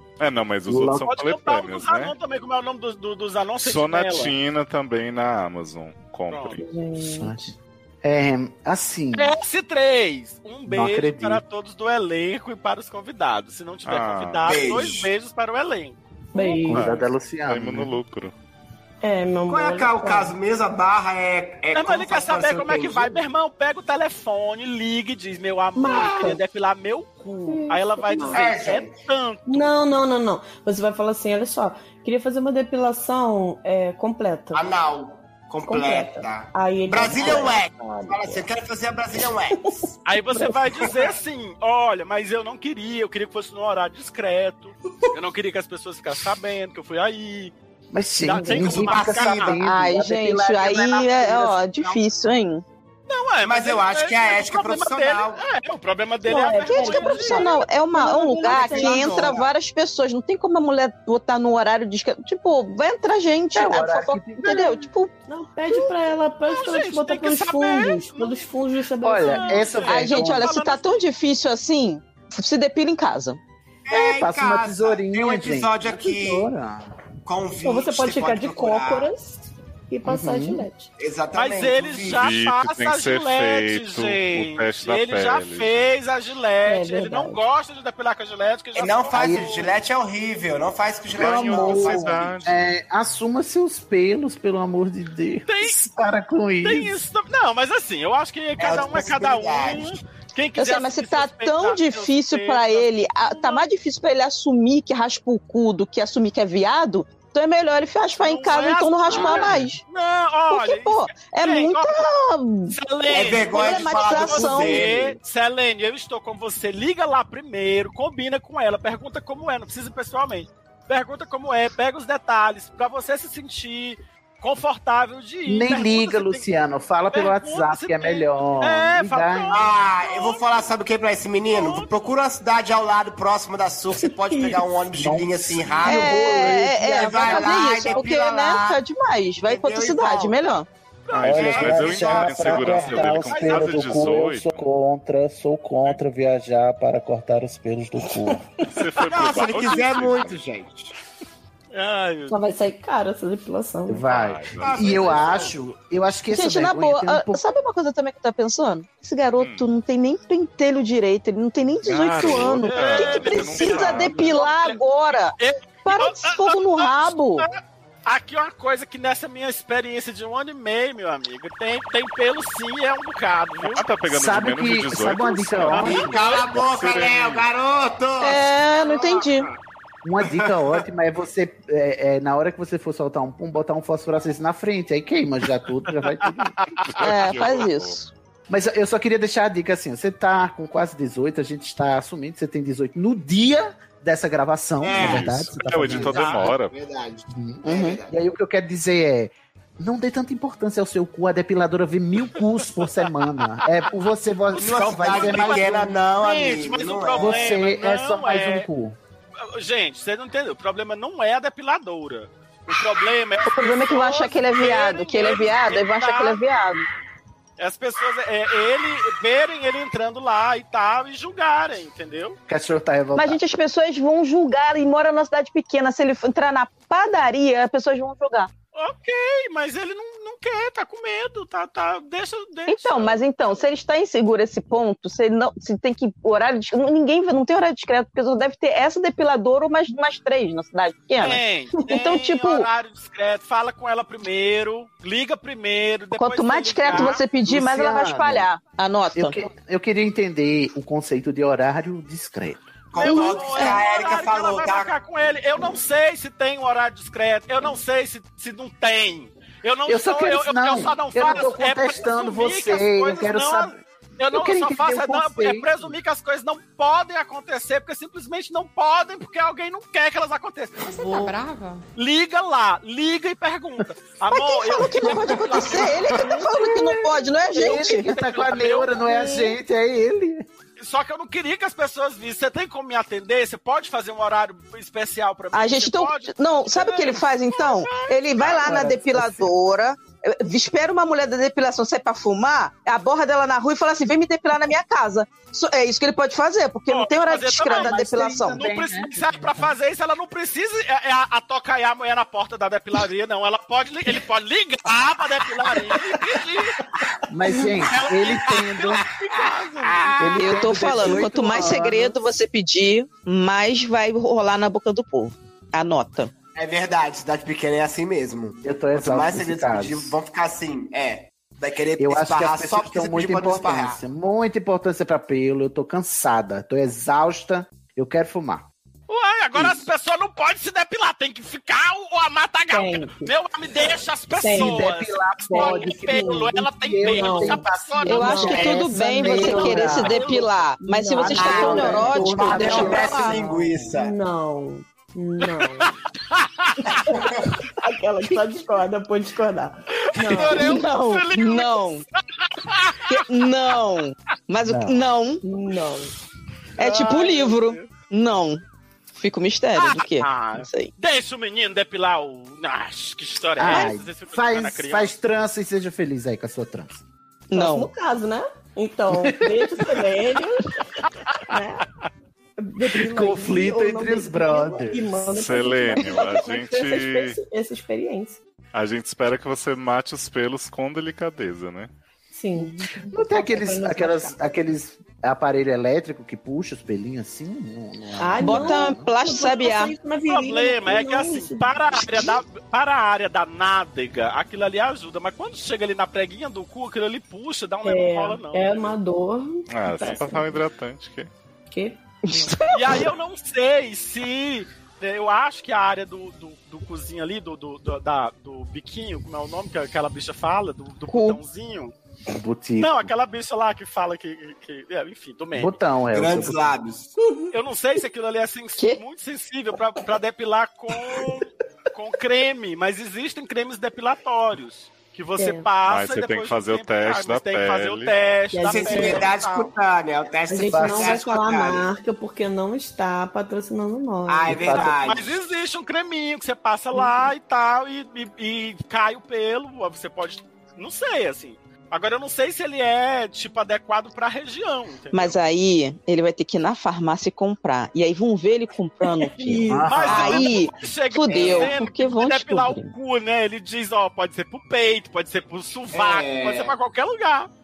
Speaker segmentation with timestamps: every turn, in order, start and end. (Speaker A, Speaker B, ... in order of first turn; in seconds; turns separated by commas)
Speaker A: 0.2-2.1, Speaker B: 0.7-1.1, Speaker C: 1.1-4.3, Speaker A: 3.6-6.7, Speaker C: 6.3-6.6, Speaker D: 6.6-7.5, Speaker B: 7.0-9.3, Speaker C: 9.1-16.6, Speaker B: 10.7-11.4, Speaker A: 13.8-14.6, Speaker E: 14.4-15.1, Speaker D: 16.3-16.9, Speaker B: 16.7-17.9, Speaker A: 16.7-18.3, Speaker D: 19.0-20.4, Speaker E: 19.5-23.2, Speaker C: 21.7-29.7, Speaker D: 25.8-26.4, Speaker E: 25.9-26.3, Speaker D: 27.4-28.4, Speaker E: 28.3-28.9, Speaker D: 29.5-34.6, Speaker E: 34.5-39.9, Speaker D: 35.7-38.4, Speaker C: 40.1-47.5, Speaker D: 40.3-40.6, Speaker E: 40.8-41.1, Speaker B: 47.9-51.7, Speaker C: 48.2-49.6, Speaker E: 48.5-49.6, Speaker F: 49.6-52.6, Speaker E: 51.4-52.0, Speaker C: 53.1-57.5, Speaker E: 53.4-55.5, Speaker D: 56.2-59.4, Speaker F: 56.7-65.1, Speaker E: 58.4-59.5, Speaker B: 63.5-64.7, Speaker D: 65.3-69.8, Speaker C: 66.5-68.6, Speaker B: 69.0-70.5, Speaker C: 69.2-71.0, Speaker F: 69.9-73.4, Speaker E: 73.9-76.5, Speaker B: 73.9-76.9, Speaker E: 77.2-79.1, Speaker D: 77.6-80.9, Speaker B: 80.0-80.7, Speaker E: 81.0-82.3, Speaker C: 81.3-89.7, Speaker A: 82.2-85.9, Speaker D: 86.6-87.4, Speaker E: 88.8-92.4, Speaker B: 89.1-89.5, Speaker A: 91.1-92.7, Speaker B: 91.2-97.0, Speaker C: 95.5-95.9, Speaker C: 96.6-103.7, Speaker E: 98.6-100.0, Speaker F: 100.6-109.8, Speaker C: 108.2-112.1, Speaker E: 109.1-109.5, Speaker F: 110.5-112.8, Speaker C: 112.7-126.5, Speaker E: 113.1-115.2, Speaker F: 113.3-114.9, Speaker B: 125.5-129.6, Speaker C: 127.1-130.7, Speaker E: 129.5-138.8, Speaker C: 131.5-131.9, Speaker D: 134.0-134.6, Speaker B: 134.9-137.5, Speaker F: 135.8-140.7, Speaker E: 139.4-140.4, Speaker E: 141.1-143.6, Speaker A: 141.1-144.7, Speaker B: 141.2-148.5, Speaker C: 143.3-143.9, Speaker A: 148.7-150.4, Speaker E: 149.0-150.9, Speaker C: 151.7-152.4, Speaker D: 152.3-154.1, Speaker B: 153.9-157.4, Speaker A: 154.1-155.4, Speaker E: 154.6-155.6, Speaker F: 156.3-165.3, Speaker A: 159.4-159.7, Speaker A: 161.8-164.4, Speaker C: 162.3-164.8, Speaker C: 165.4-173.9, Speaker F: 165.8-167.5, Speaker A: 173.6-177.4, Speaker B: 174.1-176.2, Speaker E: 175.7-179.6, Speaker F: 178.2-179.5, Speaker B: 180.0-186.8, Speaker E: 180.2-180.8, Speaker C: 186.0-186.9, Speaker A: 186.9-188.0, Speaker F: 187.0-188.1, Speaker B: 188.5-196.5, Speaker E: 194.8-198.1, Speaker A: 194.9-196.8, Speaker B: 197.3-205.9, Speaker F: 197.6-198.0, Speaker E: 204.6-207.6, Speaker C: 204.6-208.7, Speaker B: 207.2-209.0, Speaker C: 209.4-216.4, Speaker F: 213.5-216.8, Speaker C: 217.6-222.4, Speaker B: 222.5-223.4, Speaker F: 223.2-228.5, Speaker C: 228.7-233.2, Speaker F: 232.7-242.7, Speaker C: 241.2-247.2, Speaker F: 246.2-249.4, Speaker B: 247.4-248.5, Speaker B: 249.1-252.7, Speaker E: 252.9-254.9, Speaker C: 253.0-271.4, Speaker F: 253.0-253.8, Speaker B: 259.9-265.9, Speaker C: 271.9-276.4, Speaker F: 274.3-278.1, Speaker E: 275.5-276.2, Speaker B: 276.4-280.5, Speaker C: 277.5-279.3, Speaker D: 279.1-279.5, Speaker C: 280.8-288.9, Speaker F: 285.5-298.6, Speaker B: 288.6-289.5, Speaker C: 296.9-306.8, Speaker B: 297.7-299.7, Speaker E: 305.7-306.4, Speaker B: 307.3-309.1, Speaker E: 307.6-310.4, Speaker C: 307.6-311.2, Speaker B: 310.2-312.3, Speaker F: 310.4-316.3, Speaker E: 316.6-324.0, Speaker B: 318.6-320.1, Speaker B: 322.0-328.7, Speaker C: 329.1-338.8, Speaker B: 329.5-329.9, Speaker D: 332.7-333.3, Speaker D: 334.4-334.8, Speaker B: 334.5-340.2, Speaker D: 335.5-343.4, Speaker F: 338.1-343.4, Speaker C: 339.9-340.5, Speaker B: 341.1-343.9, Speaker E: 341.4-344.1, Speaker D: 343.9-345.9, Speaker C: 345.8-347.0, Speaker D: 346.9-350.9, Speaker E: 347.1-347.4, Speaker C: 350.1-353.3, Speaker F: 350.5-352.0, Speaker F: 353.1-355.4, Speaker B: 354.6-355.0, Speaker D: 355.4-356.1, Speaker C: 356.8-357.9, Speaker F: 356.8-358.6, Speaker F: 359.1-360.9, Speaker C: 359.8-365.1, Speaker B: 363.6-367.0, Speaker F: 367.5-367.9, Speaker D: 367.5-370.8, Speaker B: 369.2-369.4, Speaker D: 371.5-371.9, Speaker D: 372.6-378.4, Speaker B: 373.0-375.2, Speaker A: 375.3-377.4, Speaker A: 378.7-381.9, Speaker D: 382.3-384.6, Speaker B: 382.6-389.1, Speaker D: 388.2-391.7, Speaker F: 388.4-389.9, Speaker C: 390.3-399.0, Speaker D: 397.9-400.6, Speaker A: 399.7-401.3, Speaker D: 401.7-402.6, Speaker F: 402.3-403.1, Speaker C: 402.7-411.9, Speaker F: 411.1-411.4, Speaker B: 412.3-413.1, Speaker C: 412.8-415.8, Speaker B: 415.5-416.8, Speaker E: 416.1-417.1, Speaker C: 417.5-429.7, Speaker D: 425.4-425.7, Speaker A: 425.8-428.1, Speaker D: 428.5-429.3, Speaker E: 428.6-431.9, Speaker D: 430.5-434.9, Speaker B: 430.7-431.2, Speaker E: 434.3-435.4, Speaker B: 434.5-435.0, Speaker C: 435.0-445.4, Speaker F: 445.1-452.9, Speaker D: 449.4-450.1, Speaker B: 449.7-450.5, Speaker C: 449.8-457.5, Speaker E: 455.9-456.8